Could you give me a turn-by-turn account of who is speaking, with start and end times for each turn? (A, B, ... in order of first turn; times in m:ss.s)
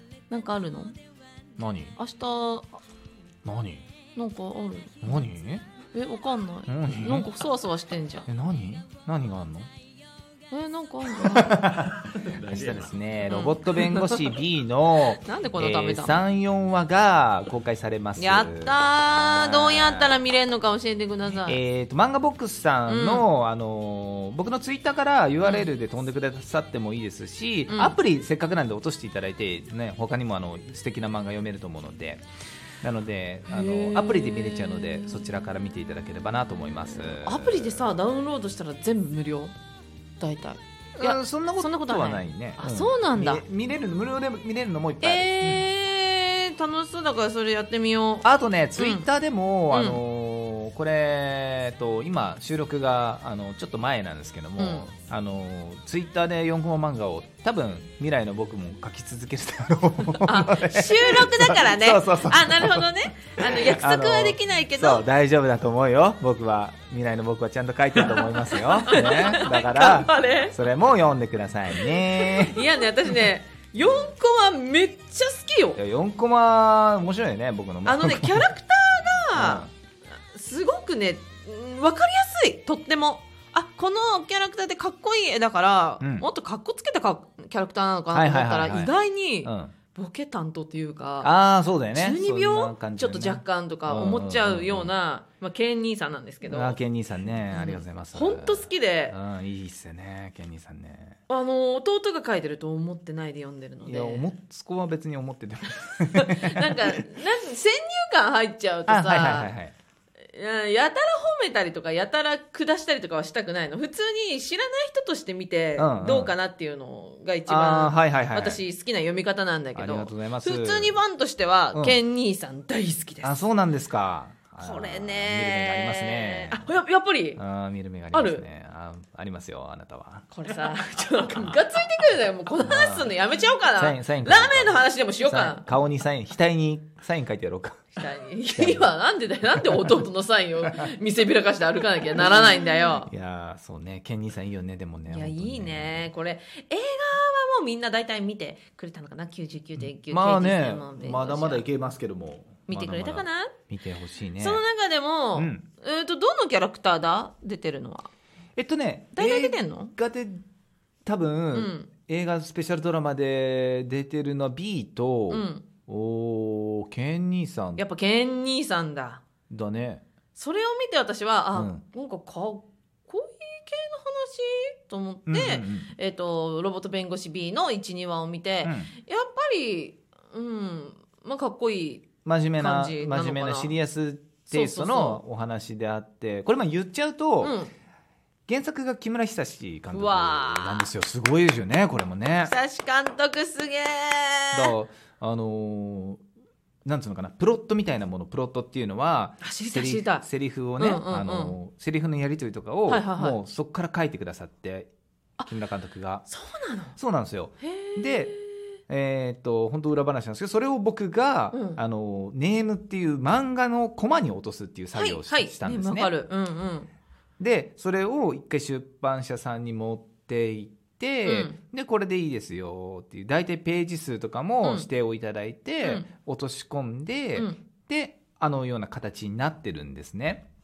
0:00.3-0:01.0 A
0:01.6-0:02.0 B
0:02.0-0:02.7 A
0:03.4-0:03.8 B
0:04.2-0:05.2 A
0:05.0-0:05.6 B
0:05.9-0:08.3 A
0:06.7-0:07.3 B
0:08.3-0:09.7 B
0:10.5-0:11.6 A
0:11.2-0:20.2 B
0:13.2-0:14.3 A
0:15.2-0:16.2 A
0:18.2-0:21.6 A
0:21.4-0:32.2 B
0:22.9-0:23.3 A
0:25.4-0:25.7 A
0:27.7-0:28.0 A
0:32.8-0:37.9 B
0:33.5-0:35.2 A
0:37.1-0:39.5 A
0:40.2-0:43.4 A
0:41.0-0:45.6 B
0:45.0-0:48.2 A
0:48.2-1:12.7 B
0:48.8-0:49.1 A
0:49.7-0:50.0 A
0:54.6-0:54.9 A
1:00.1-1:05.0 A
1:08.0-1:10.6 A
1:11.7-1:15.8 A
1:15.8-1:18.5 B
1:17.8-1:31.3 A
1:19.3-1:19.7 B
1:26.0-1:26.3 B
1:28.1-1:28.9 B
1:29.4-1:29.7 B
1:31.2-1:34.9 B
1:31.9-1:36.8 A
1:36.4-1:41.2 B
1:37.5-1:39.2 A
1:41.3-1:44.3 A
1:43.8-1:47.0 B
1:46.1-1:49.5 A
1:48.9-1:49.7 B
1:50.3-2:03.4 A
1:55.8-1:56.3 B
1:57.5-1:58.6 B
1:59.8-2:00.9 B
2:01.7-2:02.0 B
2:03.2-2:06.6 B
2:04.6-2:07.4 A
2:07.4-2:10.3 B
2:08.1-2:08.4 A
2:10.3-2:15.7 A
2:12.6-2:13.1 B
2:13.8-2:17.9 B
2:17.9-2:23.1 A
2:18.5-2:18.9 B
2:22.2-2:22.5 B
2:23.0-2:26.1 B
2:25.1-2:31.6 A
2:29.8-2:34.6 B
2:32.7-2:33.5 A
2:34.4-2:38.1 A
2:35.3-2:35.6 B
2:38.6-2:40.4 B
2:39.1-2:39.9 A
2:41.0-2:47.8 B
2:41.5-2:41.9 A
2:45.3-2:45.6 A
2:47.8-2:49.2 A
2:49.5-2:50.0 B
2:50.3-3:03.7 A
2:51.5-2:51.8 B
2:55.3-2:55.9 B
2:58.6-2:58.9 B
3:02.2-3:07.6 B
3:04.5-3:05.2 A
3:07.4-3:07.7 A
3:08.5-3:12.5 B
3:09.9-3:10.9 A
3:12.4-3:14.7 A
3:14.5-3:16.2 B
3:16.8-3:24.9 B
3:19.4-3:20.2 A
3:20.8-3:21.6 A
3:22.9-3:23.4 A
3:25.5-3:26.3 B
3:26.3-3:27.0 A
3:27.0-3:28.3 B
3:27.6-3:28.8 A
3:28.9-3:36.1 B
3:31.5-3:31.8 A
3:34.9-3:36.9 A
3:37.4-3:50.5 B
3:41.2-3:41.6 A
3:44.6-3:44.9 A
3:45.8-3:46.1 A
3:47.4-3:47.6 A